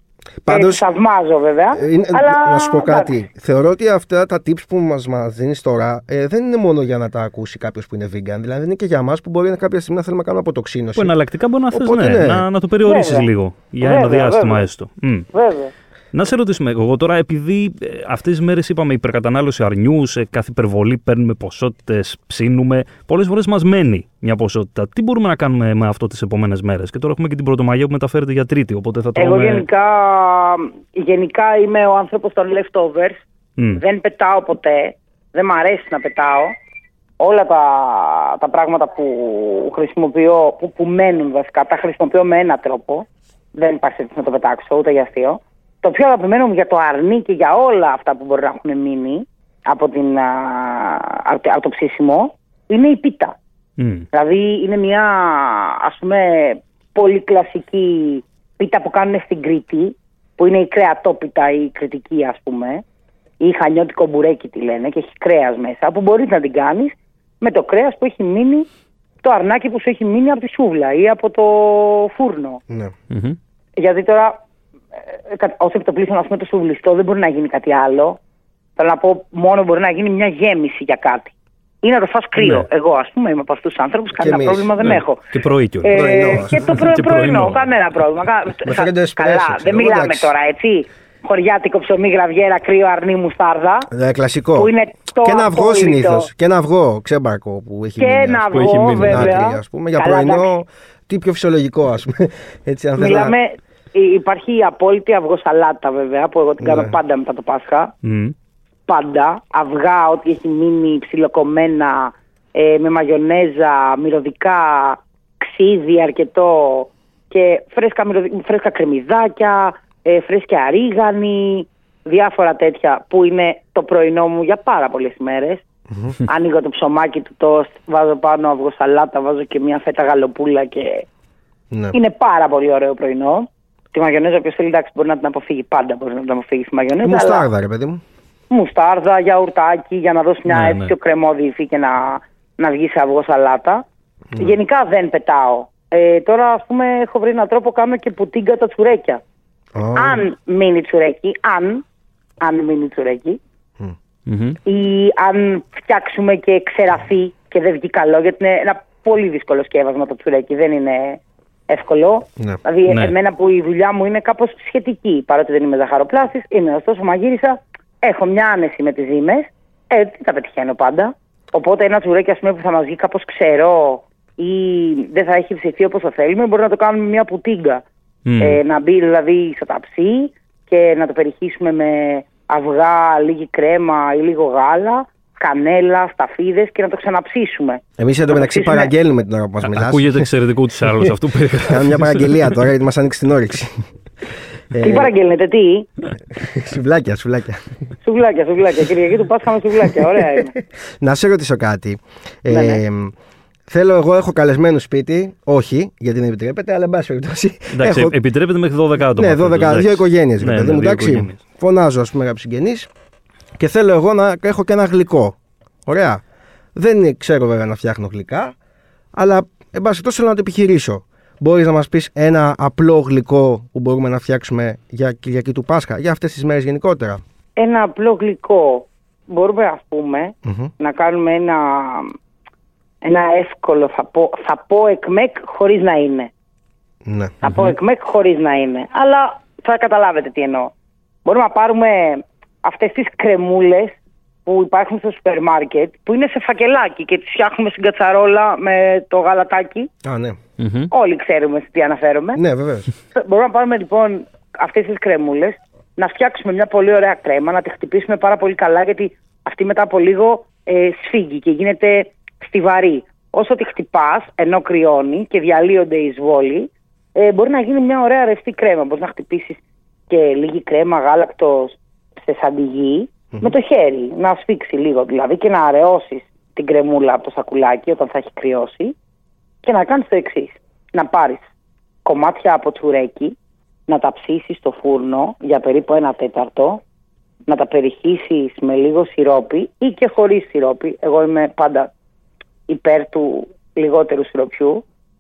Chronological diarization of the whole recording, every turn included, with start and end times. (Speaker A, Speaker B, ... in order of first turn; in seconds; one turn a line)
Speaker A: 0.4-0.8
Speaker B: 0.5-3.1
Speaker A: 1.7-11.2
Speaker C: 10.9-15.3
Speaker A: 11.7-12.5
Speaker B: 12.8-13.3
Speaker B: 13.8-14.7
Speaker B: 15.3-15.7
Speaker C: 16.1-29.6
Speaker B: 29.1-33.2
Speaker C: 33.6-33.8
Speaker B: 33.8-36.5
Speaker B: 37.2-53.4
Speaker C: 53.8-54.1
Speaker B: 54.1-62.8
Speaker B: 63.4-68.7
Speaker B: 69.2-72.6
Speaker A: 72.7-72.9
Speaker C: 73.1-73.4
Speaker B: 73.8-74.4
Speaker B: 75.1-78.2
Speaker B: 78.8-85.3
Speaker C: 82.3-82.7
Speaker A: 84.2-84.7
Speaker C: 84.8-87.7
Speaker B: 85.8-93.9
Speaker A: 85.9-86.8
Speaker A: 88.6-90.3
Speaker A: 93.9-103.3
Speaker B: 94.5-96.3
Speaker B: 98.0-100.5
Speaker C: 98.5-99.4
Speaker B: 103.0-107.9
Speaker A: 106.6-107.0
Speaker C: 108.0-108.3
Speaker B: 108.9-125.6
Speaker B: 126.2-131.1
Speaker A: 131.7-132.0
Speaker B: 131.9-137.5
Speaker A: 137.0-138.0
Speaker B: 138.5-143.8
Speaker C: 140.5-140.9
Speaker B: 144.3-149.2
Speaker A: 149.7-150.2
Speaker B: 149.9-151.8
Speaker B: 152.4-153.4
Speaker C: 154.3-154.6
Speaker B: 154.6-177.8
Speaker C: 162.9-163.1
Speaker C: 178.2-178.6
Speaker B: 178.4-188.9
Speaker A: 188.0-190.3
Speaker C: 189.6-192.6
Speaker A: 191.6-193.8
Speaker A: 194.7-195.1
Speaker B: 194.8-195.9
Speaker A: 196.3-197.6
Speaker B: 198.0-200.5
Speaker A: 201.0-203.1
Speaker B: 202.5-202.8
Speaker A: 203.7-208.1
Speaker C: 207.7-211.4
Speaker A: 209.1-212.9
Speaker A: 213.6-216.2
Speaker A: 216.7-218.5
Speaker A: 219.1-227.2
Speaker B: 227.6-232.1
Speaker A: 230.4-230.7
Speaker B: 233.0-236.3
Speaker A: 237.0-237.3
Speaker B: 237.4-240.7
Speaker C: 237.4-237.8
Speaker B: 241.2-249.9
Speaker A: 250.0-250.4
Speaker C: 250.6-250.9
Speaker B: 250.9-252.4
Speaker A: 252.3-252.9
Speaker B: 253.1-278.9
Speaker B: 279.6-281.5
Speaker B: 282.0-283.4
Speaker B: 283.9-286.8
Speaker B: 287.5-291.9
Speaker B: 292.7-294.8